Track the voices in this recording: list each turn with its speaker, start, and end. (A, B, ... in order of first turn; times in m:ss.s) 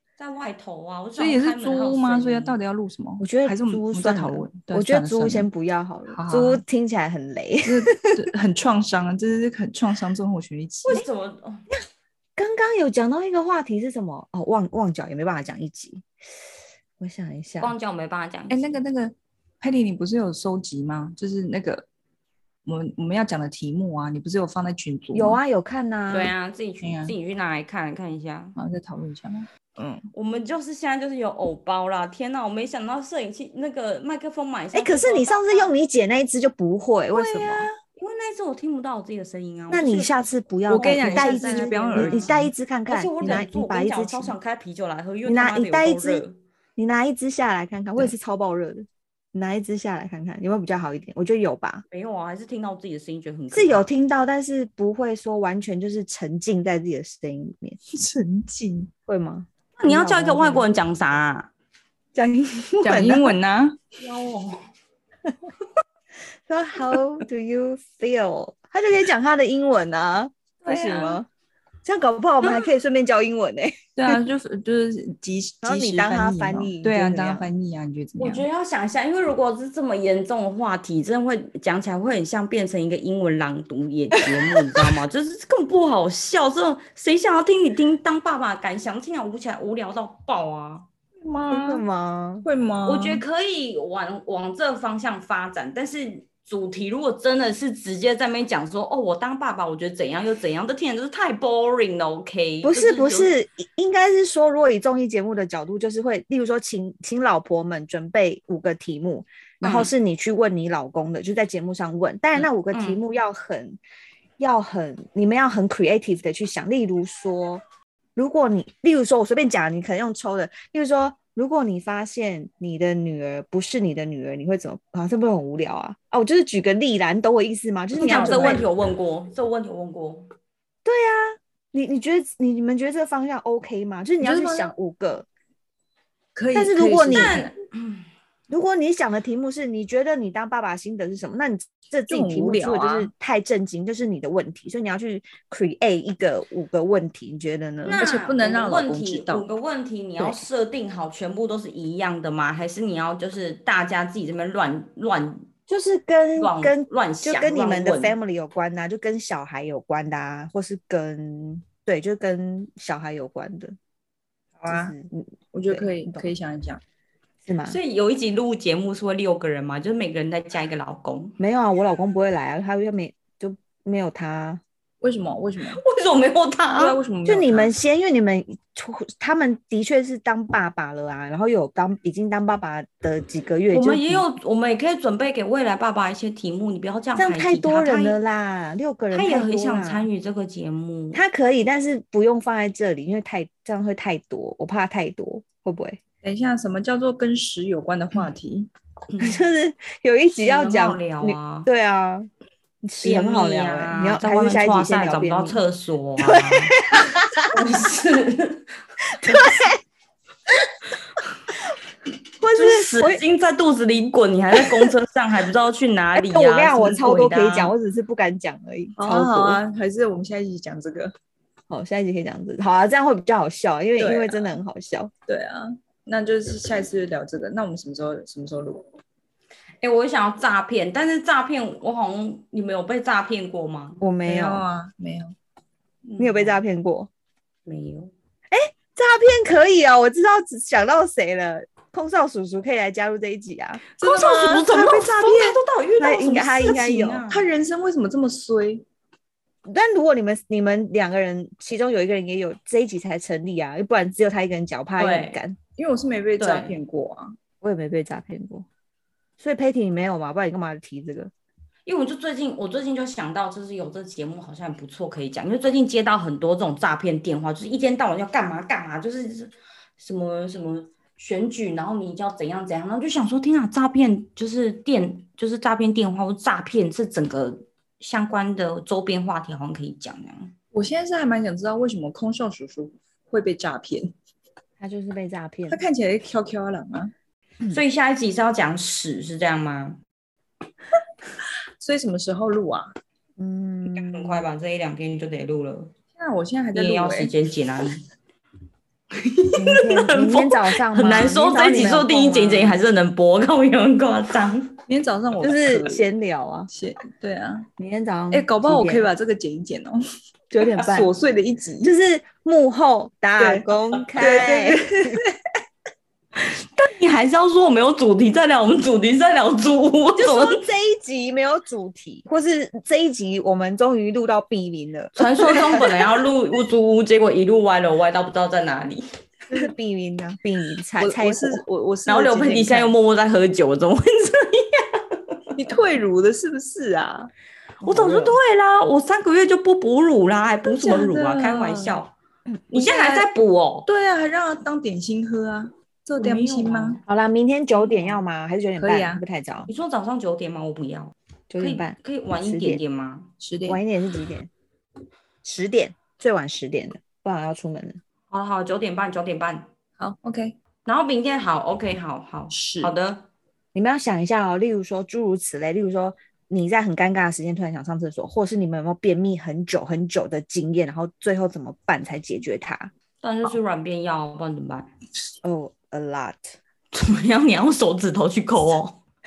0:00.2-0:02.6 A
0:01.2-0:05.5 B
0:03.2-0:07.9 C
0:06.1-0:06.6 B
0:07.7-0:11.0 B
0:10.8-0:11.6 A
0:12.4-0:16.0 C
0:17.0-0:17.8 C
0:17.6-0:18.7 A
0:18.5-0:21.8 B
0:22.7-0:25.4 B
0:25.1-0:26.3 C
0:26.1-0:28.6 A
0:26.8-0:27.1 B
0:28.6-0:30.0 B
0:30.1-0:35.7 A
0:34.7-0:37.7 C
0:38.0-0:40.2 A
0:39.7-0:44.4 C
0:40.7-0:42.5 B
0:40.7-0:46.4 A
0:45.2-0:46.2 C
0:46.8-0:51.8 C
0:51.9-0:53.9 A
0:53.5-0:57.8 C
0:58.0-0:58.9 B
0:59.1-1:00.7 C
0:59.8-1:01.5 A
1:02.2-1:03.4 C
1:02.8-1:03.8 B
1:04.0-1:04.5 A
1:06.5-1:11.3 C
1:10.6-1:11.2 B
1:11.8-1:14.2 C
1:14.0-1:18.4 B
1:15.6-1:17.5 C
1:18.2-1:30.9 A
1:31.2-1:31.8 B
1:31.5-1:32.5 C
1:32.4-1:33.2 B
1:32.8-1:43.4 A
1:42.6-1:53.8 C
1:49.6-1:49.9 A
1:52.4-1:53.0 A
1:54.4-1:57.6 C
1:58.2-2:08.7 C
2:07.9-2:10.3 A
2:10.8-2:15.3 C
2:14.2-2:14.7 B
2:16.4-2:17.5 B
2:16.5-2:17.4 C
2:17.1-2:18.0 A
2:18.5-2:28.0 C
2:22.1-2:23.1 B
2:27.8-2:35.4 A
2:28.0-2:29.5 B
2:35.7-2:43.8 C
2:36.4-2:38.2 A
2:44.6-2:44.9 B
2:44.7-2:46.3 C
2:45.5-2:46.8 B
2:47.4-2:47.8 C
2:47.7-2:51.4 A
2:51.4-2:54.6 C
2:55.0-2:55.8 B
2:55.6-2:57.0 A
2:56.8-2:57.7 B
2:57.2-3:04.3 C
3:03.7-3:08.2 A
3:07.2-3:10.1 C
3:09.1-3:11.2 A
3:11.1-3:16.0 C
3:16.2-3:18.7 B
3:19.1-3:19.4 A
3:19.2-3:22.3 C
3:20.4-3:21.7 A
3:22.8-3:25.6 C
3:23.0-3:26.8 A
3:26.2-3:27.4 C
3:27.5-3:28.6 A
3:29.1-3:29.8 C
3:32.4-3:33.2 C
3:32.6-3:37.7 A
3:36.2-3:39.6 C
3:39.0-3:41.1 B
3:41.7-3:45.1 C
3:44.0-3:44.3 B
3:45.3-3:48.8 B
3:49.8-3:54.0 A
3:54.0-3:54.6 C
3:54.3-3:55.3 B
3:56.0-3:56.6 A
3:56.2-3:57.1 C
3:57.7-3:58.1 A
3:58.5-4:03.8 C
4:04.0-4:05.5 B
4:04.0-4:07.5 A
4:06.0-4:07.2 C
4:07.3-4:08.8 B
4:09.6-4:15.6 C
4:15.0-4:15.4 A
4:15.8-4:17.4 B
4:16.4-4:16.8 A
4:17.6-4:18.7 C
4:19.4-4:21.3 C
4:21.9-4:40.5 A
4:40.8-4:44.1 B
4:44.8-4:45.8 C
4:45.7-4:47.1 B
4:47.7-4:50.0 A
4:51.8-4:52.9 B
4:53.4-4:54.5 C
4:53.9-4:55.9 A
4:56.2-4:57.3 B
4:56.7-4:58.0 A
4:59.6-5:02.8 C
4:59.8-5:04.7 A
5:04.9-5:05.9 B
5:05.4-5:06.7 C
5:06.7-5:07.7 B
5:07.8-5:09.1 C
5:08.3-5:10.0 B
5:10.5-5:11.2 C
5:10.8-5:11.9 B
5:11.8-5:15.2 C
5:14.2-5:15.0 B
5:16.4-5:20.5 A
5:20.2-5:26.0 C
5:25.2-5:29.0 A
5:29.5-5:31.6 C
5:31.0-5:32.9 B
5:32.1-5:35.4 A
5:35.6-5:37.3 B
5:37.8-5:42.2 A
5:37.8-5:38.4 C
5:40.7-5:41.9 B
5:42.7-5:43.9 A
5:43.9-5:47.0 B
5:46.2-5:47.0 A
5:47.1-5:49.7 C
5:47.7-5:48.2 A
5:48.8-5:49.2 B
5:49.7-5:53.3 A
5:51.5-5:52.8 C
5:53.4-5:53.8 B
5:53.7-5:54.5 C
5:55.4-5:58.0 C
5:58.3-5:59.7 A
6:00.0-6:00.6 B
6:00.8-6:03.3 A
6:02.5-6:02.9 B
6:03.7-6:12.9 C
6:13.2-6:14.9 A
6:15.4-6:16.6 C
6:16.9-6:19.0 A